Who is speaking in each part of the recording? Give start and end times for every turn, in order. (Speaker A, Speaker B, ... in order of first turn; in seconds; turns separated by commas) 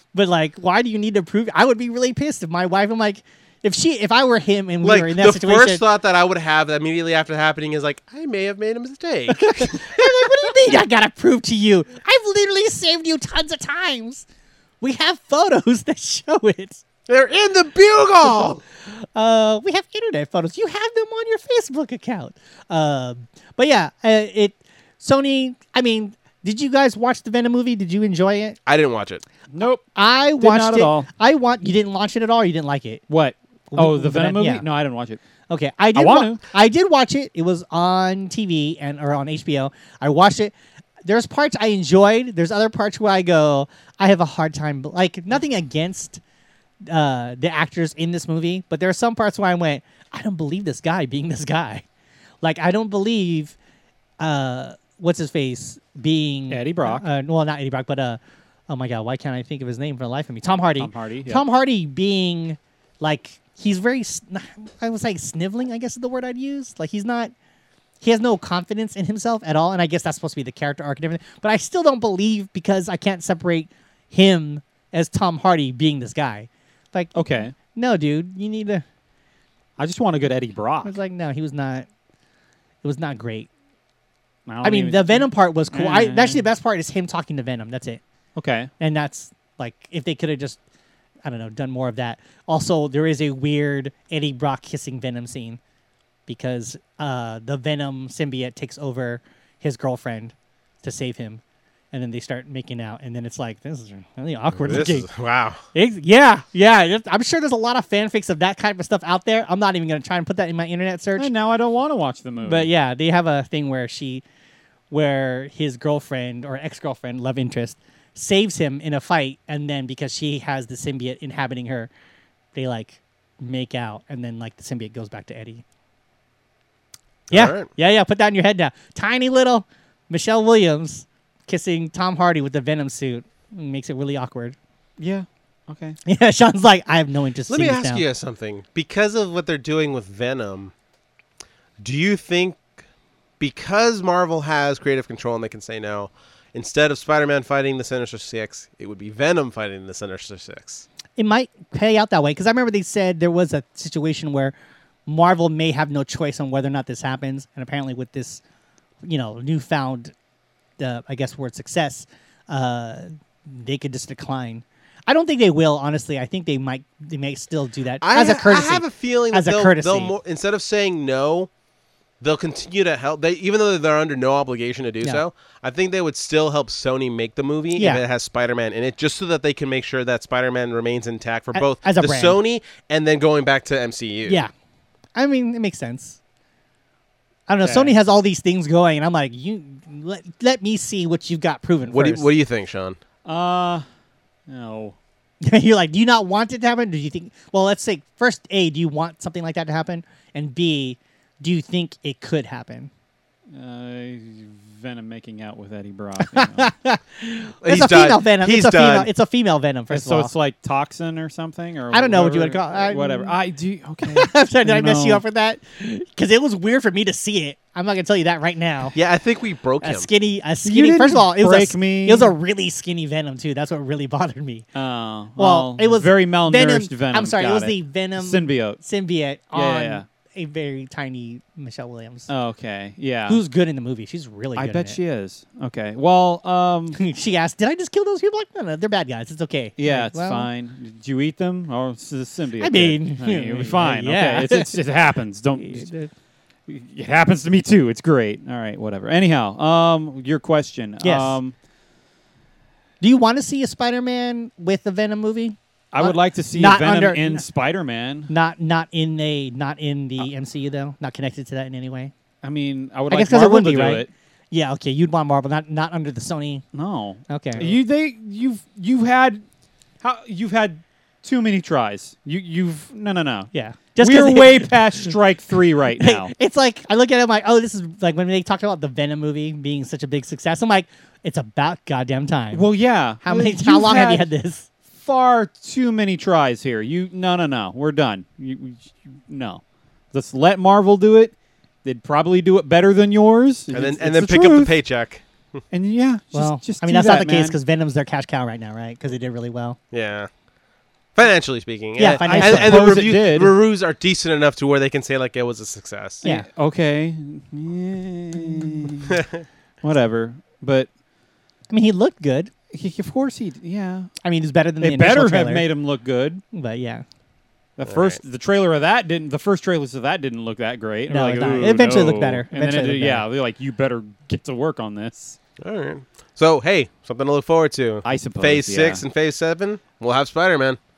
Speaker A: 0.1-5.8, Speaker B: 4.8-10.5, Speaker A: 9.3-14.2, Speaker A: 14.8-16.8, Speaker B: 17.1-18.6, Speaker A: 18.9-28.6, Speaker B: 28.7-29.2, Speaker C: 29.5-29.8, Speaker A: 29.9-33.0, Speaker C: 30.4-31.1, Speaker C: 33.1-35.2, Speaker A: 33.7-34.6, Speaker A: 35.5-40.5, Speaker C: 36.0-36.4, Speaker A: 41.1-46.2, Speaker A: 46.9-51.8, Speaker A: 52.4-53.5, Speaker A: 54.2-67.3, Speaker C: 56.5-57.0, Speaker C: 60.8-61.4, Speaker A: 68.0-78.8, Speaker C: 77.2-77.5, Speaker C: 79.8-81.0, Speaker A: 80.8-81.9, Speaker A: 82.8-83.5, Speaker C: 84.5-86.4, Speaker A: 84.6-88.0, Speaker C: 88.4-88.7, Speaker A: 88.8-90.6, Speaker A: 91.2-95.6, Speaker A: 96.3-101.4, Speaker A: 101.9-105.1, Speaker B: 104.6-105.6, Speaker A: 105.7-111.3, Speaker C: 111.2-112.7, Speaker A: 112.4-114.2, Speaker A: 114.9-121.9, Speaker A: 122.5-125.6, Speaker B: 127.3-127.7, Speaker A: 127.3-134.6, Speaker C: 135.0-136.0, Speaker A: 136.1-138.0, Speaker B: 137.5-140.7, Speaker B: 141.8-142.6, Speaker B: 143.4-150.9, Speaker A: 151.2-154.6, Speaker A: 155.1-158.4, Speaker A: 159.0-160.1, Speaker A: 160.8-170.1, Speaker B: 168.0-171.5, Speaker B: 172.2-184.4, Speaker A: 177.8-178.0, Speaker A: 181.5-182.4, Speaker A: 185.2-186.2, Speaker A: 187.5-192.3, Speaker C: 187.6-187.9, Speaker B: 191.9-193.0, Speaker C: 193.3-193.8, Speaker C: 194.5-195.0, Speaker A: 195.4-202.9, Speaker C: 203.5-206.7, Speaker A: 206.2-210.3, Speaker B: 207.6-209.1, Speaker C: 209.9-215.2, Speaker A: 211.9-213.4, Speaker A: 214.1-219.0, Speaker B: 218.9-220.1, Speaker A: 219.8-224.7, Speaker C: 220.6-222.3, Speaker C: 224.8-228.8, Speaker A: 225.4-232.3, Speaker C: 229.5-230.1, Speaker C: 232.3-233.4, Speaker A: 233.3-235.0, Speaker C: 234.6-237.0, Speaker A: 236.9-240.5, Speaker C: 239.8-245.9, Speaker A: 242.6-244.8, Speaker A: 245.6-246.1, Speaker C: 246.7-251.5, Speaker A: 251.0-251.4, Speaker A: 253.0-257.5, Speaker C: 255.9-258.3, Speaker A: 258.3-262.1, Speaker C: 262.4-264.1, Speaker A: 263.1-266.6, Speaker C: 266.7-269.4, Speaker A: 267.3-267.8, Speaker C: 270.0-276.3, Speaker A: 273.5-275.2, Speaker A: 275.9-282.6, Speaker C: 282.5-284.3, Speaker A: 283.2-284.7, Speaker C: 284.9-289.6, Speaker C: 290.1-291.3, Speaker C: 291.8-294.7, Speaker B: 293.7-295.2, Speaker C: 295.7-297.6, Speaker A: 296.3-299.8, Speaker B: 299.9-300.3, Speaker B: 301.1-306.2, Speaker A: 302.0-302.9, Speaker C: 302.1-303.5, Speaker C: 306.2-309.2, Speaker B: 309.1-309.4, Speaker C: 309.8-310.9, Speaker A: 311.7-312.5, Speaker C: 312.7-314.1, Speaker A: 314.2-315.6, Speaker C: 314.8-316.4, Speaker A: 316.5-317.0, Speaker C: 317.8-325.4, Speaker B: 317.9-318.2, Speaker A: 321.1-323.2, Speaker B: 325.6-330.8, Speaker C: 328.1-329.0